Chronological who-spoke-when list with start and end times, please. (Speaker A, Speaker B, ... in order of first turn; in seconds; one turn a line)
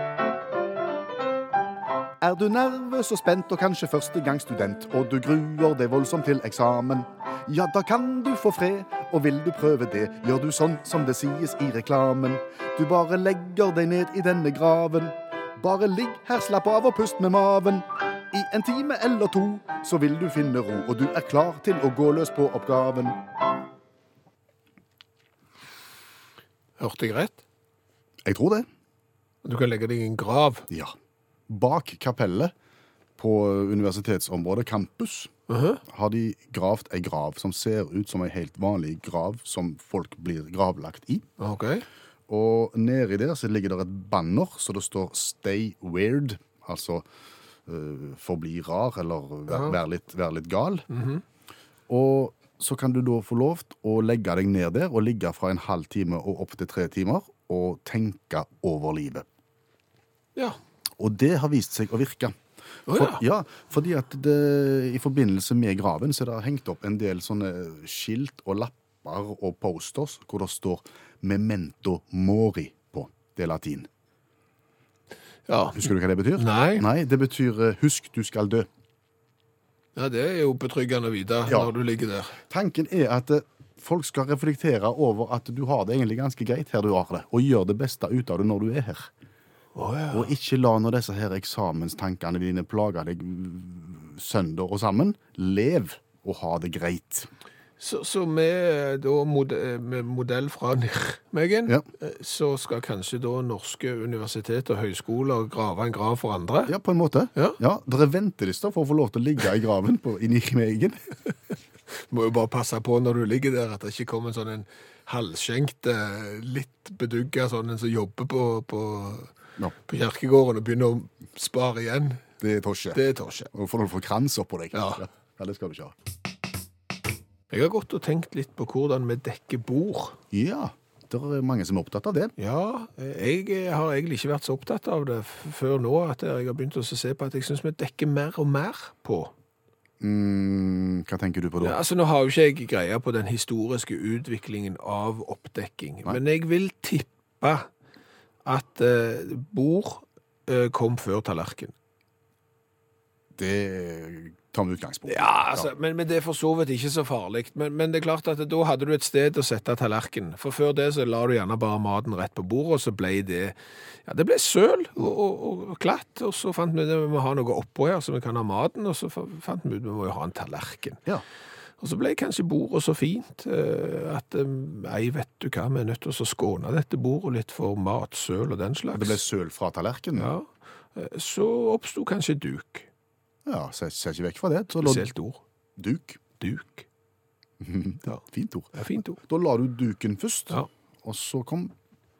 Speaker A: 2.2-23.2
Speaker B: 26.8-27.4
Speaker A: 28.2-28.6
Speaker B: 29.4-30.7
Speaker A: 30.7-30.9
Speaker A: 31.5-32.5
Speaker A: 33.2-35.3
Speaker B: 35.5-35.8
Speaker A: 35.9-41.3
Speaker B: 41.4-41.8
Speaker A: 42.3-47.0
Speaker A: 47.6-50.9
Speaker B: 49.5-49.8
Speaker B: 50.9-51.2
Speaker A: 51.9-59.2
Speaker A: 61.0-62.4
Speaker B: 62.9-63.2
Speaker A: 62.9-73.9
Speaker B: 75.5-76.8
Speaker A: 75.8-78.7
Speaker B: 80.0-82.3
Speaker A: 81.5-81.7
Speaker A: 82.5-89.1
Speaker B: 89.7-90.3
Speaker A: 90.1-97.3
Speaker B: 97.8-106.7
Speaker A: 106.7-111.0
Speaker B: 112.1-119.3
Speaker B: 119.9-122.2
Speaker A: 122.4-125.9
Speaker B: 122.9-123.5
Speaker B: 124.7-125.0
Speaker B: 127.5-130.2
Speaker A: 130.3-132.3
Speaker B: 132.4-139.3
Speaker A: 140.0-141.8
Speaker B: 141.6-147.7
Speaker B: 148.4-151.7
Speaker A: 153.3-155.7
Speaker B: 155.1-163.5
Speaker B: 164.0-171.0
Speaker B: 171.8-179.2
Speaker A: 178.9-180.3
Speaker B: 180.1-182.9
Speaker A: 183.4-185.1
Speaker B: 184.8-185.4
Speaker A: 185.8-186.2
Speaker B: 186.4-186.8
Speaker A: 187.6-191.7
Speaker B: 188.7-189.2